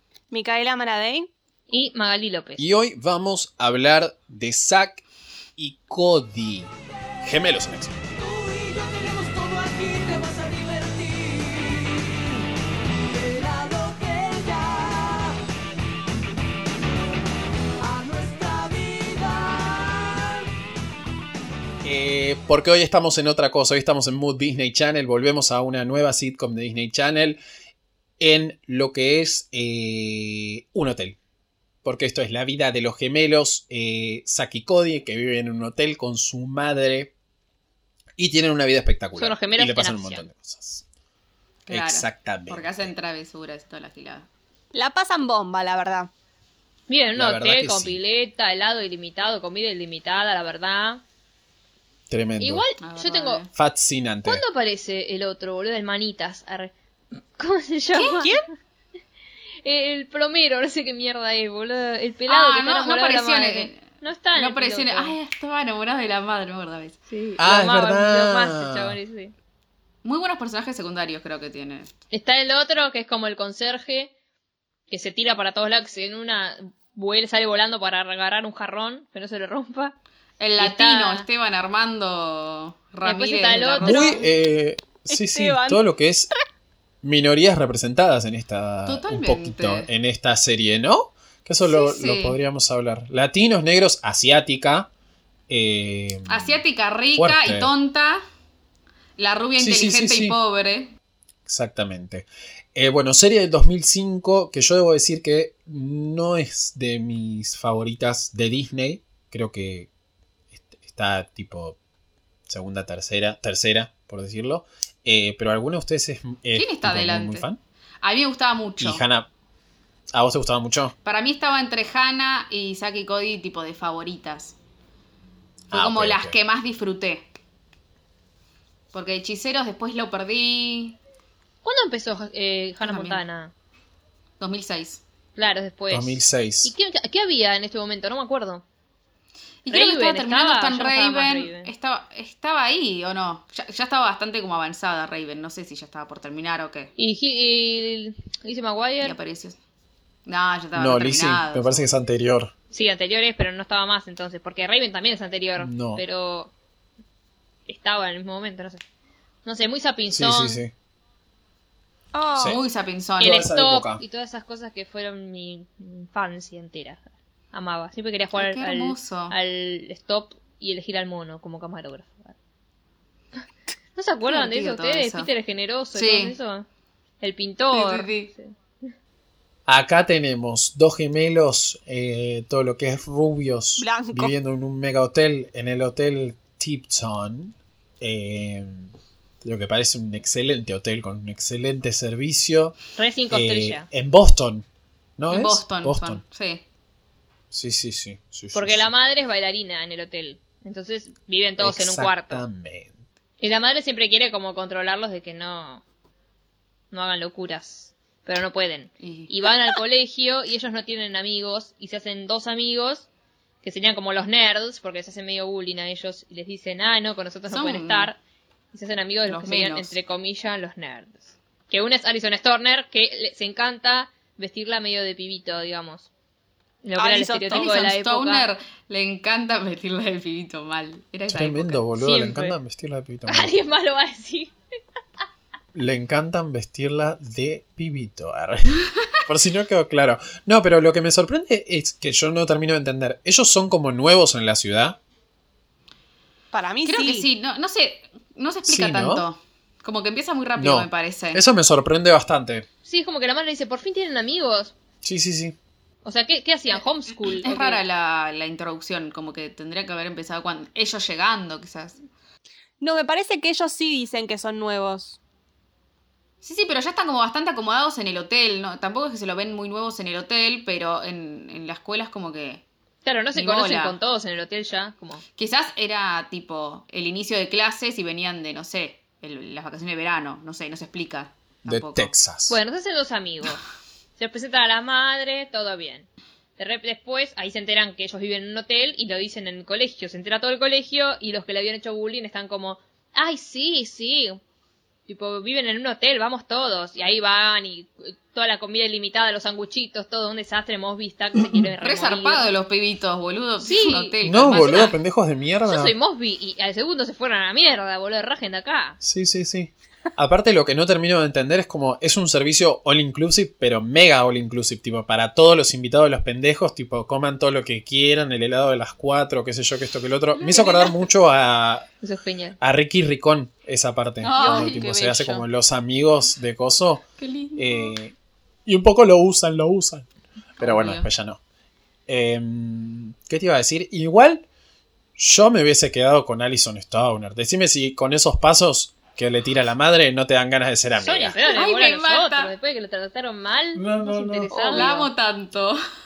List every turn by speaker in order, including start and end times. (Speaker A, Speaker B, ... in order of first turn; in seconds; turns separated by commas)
Speaker A: 0.3-1.3, Speaker B: 1.7-2.6, Speaker C: 2.6-5.0, Speaker C: 5.6-6.7, Speaker C: 7.2-7.9, Speaker A: 8.2-12.4, Speaker A: 13.0-15.4, Speaker A: 17.8-20.4, Speaker C: 21.8-27.4, Speaker C: 28.2-31.2, Speaker C: 31.8-37.1, Speaker C: 38.2-40.8, Speaker B: 39.1-40.2, Speaker D: 41.7-44.3, Speaker C: 41.7-42.9, Speaker A: 44.7-46.1, Speaker B: 46.9-51.0, Speaker C: 47.1-48.0, Speaker C: 52.1-52.7, Speaker B: 52.4-53.4, Speaker D: 52.8-53.5, Speaker C: 53.5-54.4, Speaker B: 54.2-56.7, Speaker B: 57.4-58.4, Speaker A: 58.0-58.4, Speaker B: 59.6-65.2, Speaker D: 62.3-67.0, Speaker B: 67.1-69.3, Speaker C: 67.4-69.0, Speaker D: 70.0-71.9, Speaker B: 72.1-74.1, Speaker B: 74.9-80.0, Speaker D: 80.4-84.2, Speaker B: 80.6-81.2, Speaker B: 83.0-84.2, Speaker C: 83.8-86.3, Speaker A: 85.0-85.8, Speaker C: 87.0-94.9, Speaker D: 88.8-89.9, Speaker D: 91.6-92.4, Speaker C: 95.5-96.6, Speaker D: 96.2-98.2, Speaker C: 97.1-97.7, Speaker D: 99.2-100.9, Speaker C: 99.6-100.4, Speaker C: 101.5-109.9, Speaker C: 110.5-111.8, Speaker C: 112.5-117.6, Speaker D: 116.5-117.5, Speaker D: 118.0-119.0, Speaker C: 118.8-119.3, Speaker C: 120.1-120.9, Speaker D: 121.0-124.5, Speaker C: 125.7-126.3, Speaker D: 125.7-127.3, Speaker D: 128.9-131.0, Speaker B: 131.6-133.5, Speaker D: 132.8-133.2, Speaker D: 134.4-135.0, Speaker B: 135.3-138.6, Speaker C: 135.9-136.7, Speaker D: 139.6-146.9, Speaker B: 139.7-141.7, Speaker B: 147.0-149.1, Speaker D: 149.0-149.6, Speaker D: 150.2-151.9, Speaker C: 150.7-152.5, Speaker B: 152.7-156.5, Speaker C: 155.6-156.0, Speaker B: 157.7-158.8, Speaker B: 159.4-160.6, Speaker C: 160.1-160.7, Speaker A: 162.1-162.6, Speaker C: 162.3-162.6, Speaker D: 162.5-163.4, Speaker B: 163.2-172.3, Speaker C: 163.2-164.0, Speaker D: 168.3-169.3, Speaker B: 173.9-176.6, Speaker D: 174.2-175.3, Speaker D: 175.9-176.3, Speaker B: 177.2-178.5, Speaker D: 177.7-178.3, Speaker C: 179.7-188.9, Speaker A: 183.8-184.3, Speaker C: 189.4-192.8, Speaker B: 193.0-193.8, Speaker C: 193.3-194.7, Speaker C: 195.2-196.2, Speaker D: 195.3-196.6, Speaker C: 197.5-198.9, Speaker B: 198.5-202.4, Speaker C: 201.6-203.0, Speaker B: 203.4-205.8, Speaker B: 206.9-213.1, Speaker D: 209.0-209.3, Speaker B: 213.6-218.2, Speaker D: 217.5-218.1, Speaker B: 218.7-226.1, Speaker A: 219.3-219.9, Speaker B: 226.8-228.5, Speaker A: 226.9-227.9, Speaker D: 227.5-231.9, Speaker C: 231.3-233.5, Speaker B: 231.9-232.6, Speaker B: 233.3-234.5, Speaker C: 235.7-245.0, Speaker A: 246.5-247.3, Speaker D: 246.8-251.4, Speaker C: 248.7-249.2, Speaker C: 250.6-252.7, Speaker B: 252.8-254.7, Speaker C: 255.0-255.6, Speaker B: 256.0-257.8, Speaker D: 257.3-262.0, Speaker A: 262.8-265.2, Speaker D: 266.4-272.6, Speaker B: 273.0-275.2, Speaker D: 273.3-274.0, Speaker D: 275.4-282.1, Speaker C: 281.7-282.6, Speaker B: 282.5-283.6, Speaker B: 284.2-294.4, Speaker B: 295.1-302.5, Speaker D: 301.8-305.0, Speaker B: 303.6-304.6, Speaker C: 304.2-305.9, Speaker B: 305.6-309.0, Speaker C: 309.0-321.9, Speaker D: 320.3-321.0, Speaker B: 322.0-322.6, Speaker C: 322.6-327.0, Speaker D: 324.2-324.8, Speaker A: 324.4-325.4, Speaker D: 327.2-327.9, Speaker C: 327.6-328.1, Speaker C: 328.6-330.1, Speaker C: 330.6-331.4, Speaker D: 330.6-331.1, Speaker C: 332.1-334.4, Speaker C: 335.2-341.4, Speaker B: 341.0-345.1, Speaker D: 341.4-342.5, Speaker C: 343.7-344.8, Speaker D: 344.7-345.8